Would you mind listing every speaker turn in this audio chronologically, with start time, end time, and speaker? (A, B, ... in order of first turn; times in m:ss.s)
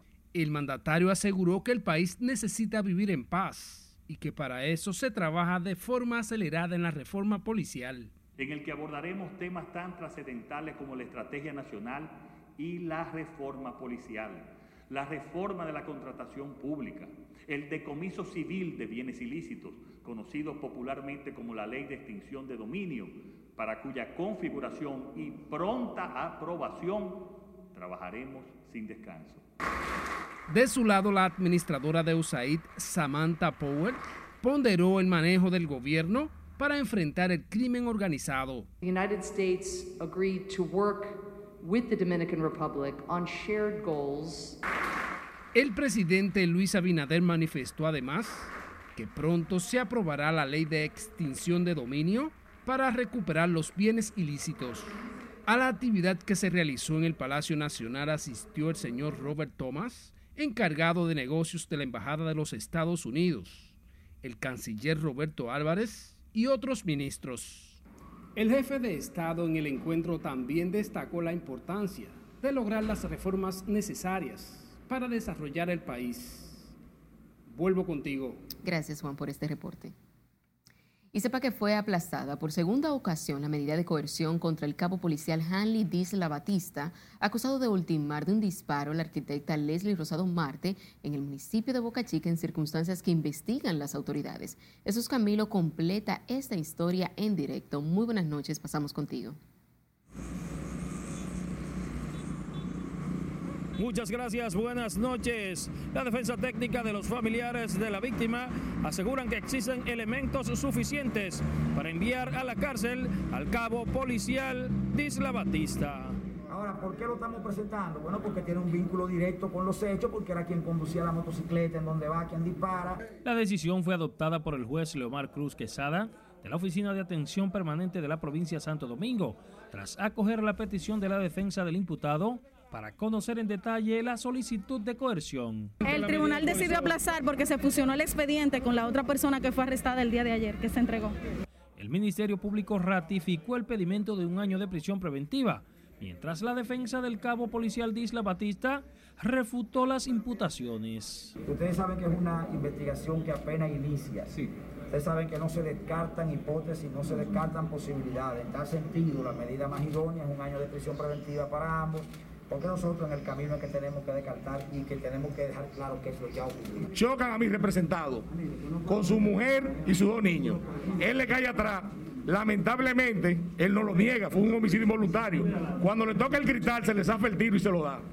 0:00.3-0:08.1 A
0:08.4-0:29.4 B
0:30.5-0:38.7 A
0:38.8-0:44.6 C
0:45.5-0:54.9 A
0:55.4-1:07.8 A
1:08.4-1:16.7 A
1:17.5-1:18.4 A
1:18.6-1:19.9 D
1:21.1-1:39.4 D
1:43.8-1:56.2 E
1:56.5-2:03.0 F
2:03.2-2:15.7 G
2:15.8-2:21.2 H
2:16.5-2:16.8 G
2:21.8-2:31.3 G
2:31.4-2:46.9 F
2:46.9-2:48.2 I
2:48.9-2:58.0 I